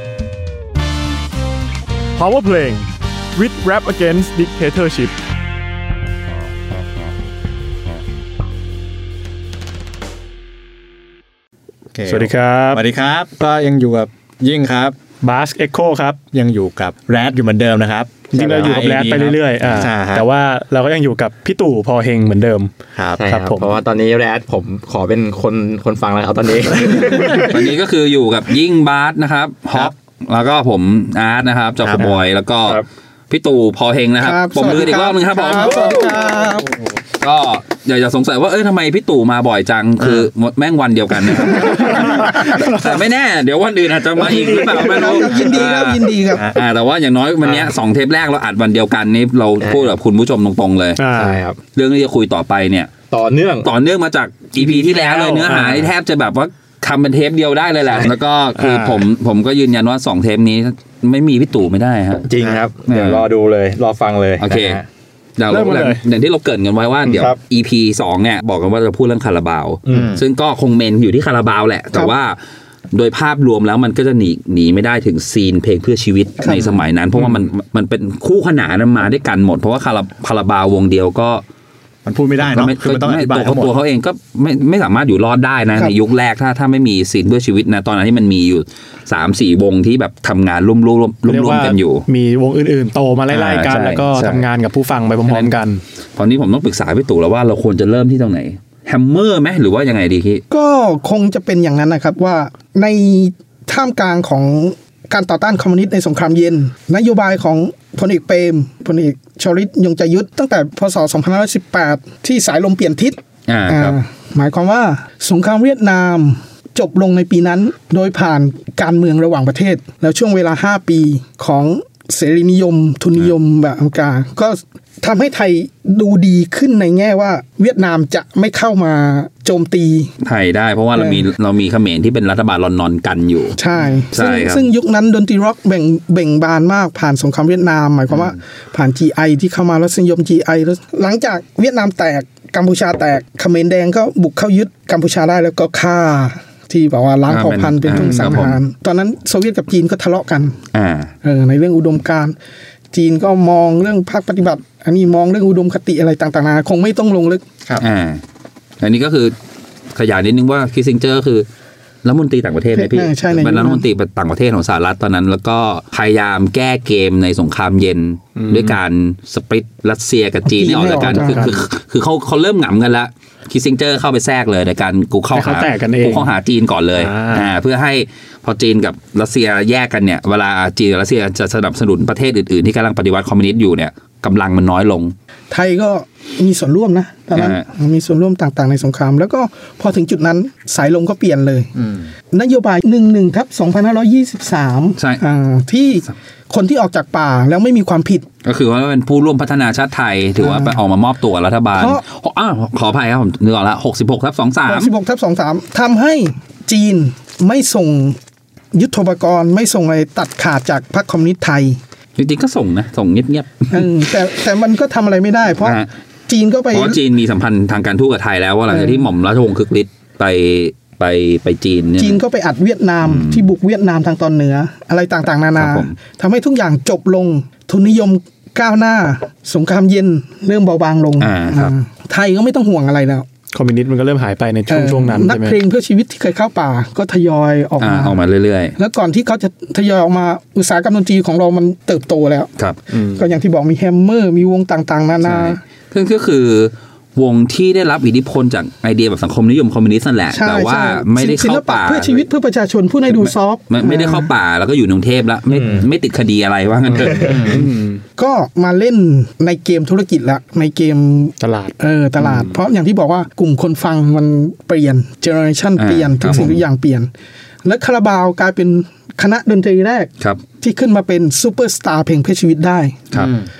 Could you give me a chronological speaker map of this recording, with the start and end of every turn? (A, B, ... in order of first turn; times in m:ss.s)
0:02.2-0:05.1 A
0:11.9-0:15.0 B
0:12.0-0:12.8 A
0:15.2-0:16.2 A
0:16.3-0:20.3 B
0:18.3-0:22.7 A
0:23.0-0:23.7 B
0:23.2-0:27.7 C
0:27.3-0:36.1 D
0:31.8-0:32.2 B
0:34.2-0:36.8 E
0:37.2-0:51.0 D
0:41.6-0:42.8 A
0:44.5-0:46.4 E
0:47.4-0:47.7 C
0:49.6-0:49.9 C
0:51.0-0:51.4 A
0:51.1-0:51.6 C
0:51.7-0:52.9 D
0:53.1-0:53.7 C
0:53.6-1:02.3 D
0:54.6-0:55.9 C
0:58.6-0:59.0 A
1:02.2-1:04.8 C
1:02.9-1:03.3 D
1:04.4-1:04.8 D
1:05.4-1:12.4 D
1:05.5-1:06.0 A
1:07.1-1:07.4 C
1:09.9-1:10.2 C
1:12.9-1:21.4 D
1:16.4-1:16.8 E
1:22.0-1:23.8 B
1:22.5-1:32.1 D
1:31.2-1:35.8 A
1:33.3-1:34.4 D
1:35.2-1:35.5 D
1:36.2-1:40.4 D
1:40.5-2:10.1 E
1:53.5-1:54.0 D
2:10.2-2:13.6 D
2:10.9-2:11.2 E
2:13.6-2:30.6 E
2:14.1-2:14.7 D
2:27.3-2:28.6 D
2:27.9-2:28.4 A
2:30.7-2:31.1 D
2:31.2-2:32.4 E
2:32.9-2:37.4 E
2:37.8-2:38.2 D
2:38.8-2:39.3 D
2:39.9-2:41.4 D
2:42.0-3:05.1 D
2:42.7-2:43.8 E
2:48.4-2:48.7 A
2:50.4-2:51.6 E
2:50.9-2:51.6 A
2:55.3-2:56.3 A
2:57.0-2:57.4 A
3:05.5-3:11.7 E
3:07.3-3:07.6 D
3:12.3-3:18.2 E
3:18.4-3:24.9 D
3:20.4-3:20.8 E
3:21.7-3:22.0 E
3:24.7-3:28.2 E
3:28.7-3:31.8 E
3:32.2-3:33.9 D
3:33.7-3:37.0 E
3:35.6-3:35.9 D
3:36.7-3:42.2 D
3:38.7-3:39.0 E
3:42.0-3:53.3 E
3:43.0-3:43.4 D
3:45.6-3:45.9 D
3:51.2-3:51.7 D
3:53.5-3:55.6 A
3:54.7-3:58.2 E
3:57.8-3:58.8 D
3:58.8-4:05.6 E
4:02.9-4:03.2 A
4:05.2-4:12.2 D
4:10.3-4:14.3 E
4:13.1-4:17.6 D
4:16.9-4:18.0 A
4:17.2-4:17.6 C
4:18.2-4:27.1 E
4:21.4-4:22.6 A
4:25.8-4:26.6 D
4:27.6-4:33.1 E
4:33.2-4:33.5 C